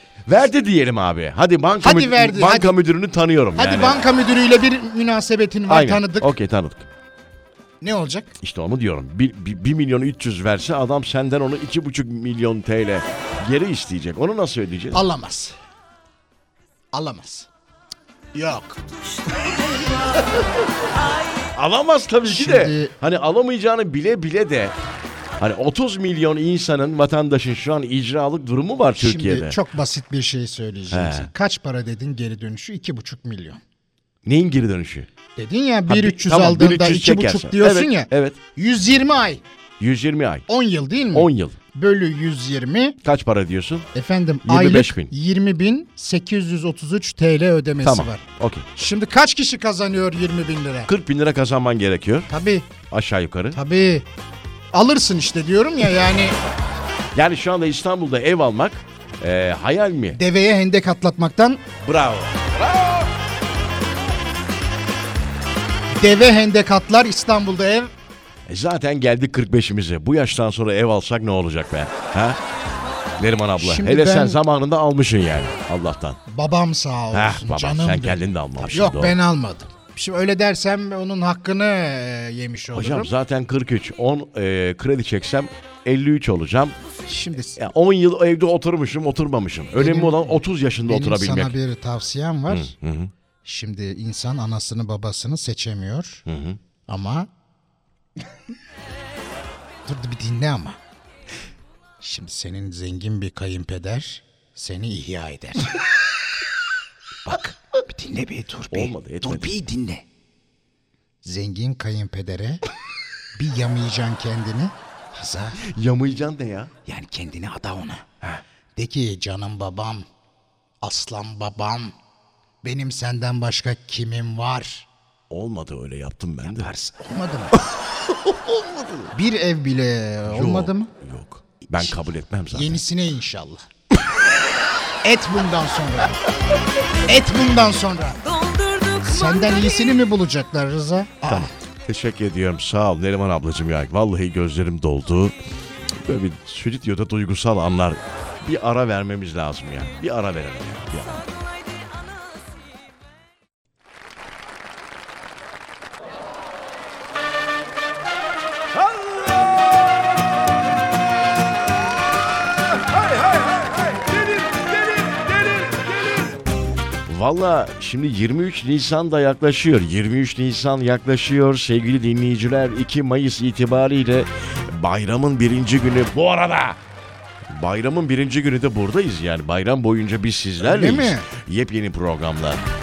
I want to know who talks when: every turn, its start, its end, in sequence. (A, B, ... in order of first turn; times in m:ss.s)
0:00.2-0:04.0 A
0:01.8-0:02.8 B
0:03.6-0:06.3 B
0:05.7-0:06.9 A
0:07.8-0:08.3 B
0:08.4-0:15.0 A
0:14.9-0:15.5 B
0:16.9-0:17.5 B
0:18.3-0:18.8 B
0:21.5-0:24.7 A
0:22.2-0:22.9 B
0:25.4-0:29.6 A
0:29.0-0:33.6 B
0:30.9-0:31.3 A
0:34.2-0:35.1 A
0:35.4-0:39.4 B
0:35.9-0:38.4 A
0:39.8-0:40.4 A
0:40.5-0:43.0 B
0:41.1-0:41.6 A
0:43.0-0:43.9 A
0:43.9-0:50.9 B
0:44.4-0:45.1 A
0:47.8-0:48.7 A
0:50.9-0:52.3 A
0:52.3-0:52.7 B
0:52.9-0:53.6 A
0:53.5-0:54.1 B
0:54.7-0:56.4 B
0:57.1-1:00.2 A
1:00.1-1:01.6 B
1:01.8-1:03.1 A
1:06.0-1:07.9 B
1:08.5-1:12.4 A
1:13.2-1:16.2 A
1:13.6-1:14.4 B
1:16.3-1:23.1 B
1:17.1-1:19.2 A
1:22.7-1:26.8 A
1:27.1-1:27.6 B
1:27.6-1:31.6 A
1:29.8-1:32.7 B
1:32.5-1:33.1 A
1:33.4-1:36.2 B
1:36.2-1:36.6 A
1:36.9-1:37.3 B
1:39.8-1:40.8 B
1:42.0-1:45.8 B
1:47.2-1:50.0 B
1:48.7-1:49.6 A
1:51.2-1:52.6 B
1:53.4-1:55.6 B
1:55.6-1:56.7 A
1:56.8-1:58.0 B
1:58.8-2:00.0 B
2:00.8-2:01.9 B
2:02.6-2:04.9 B
2:05.3-2:06.7 A
2:06.4-2:07.6 B
2:08.3-2:09.1 A
2:09.1-2:10.9 B
2:10.3-2:12.8 A
2:12.5-2:13.6 B
2:15.0-2:16.2 B
2:17.0-2:21.5 B
2:21.2-2:25.4 A
2:25.9-2:31.3 A
2:38.7-2:40.1 A
2:42.5-2:46.4 A
2:47.0-2:56.8 A
2:57.5-3:02.6 A
3:00.6-3:01.3 B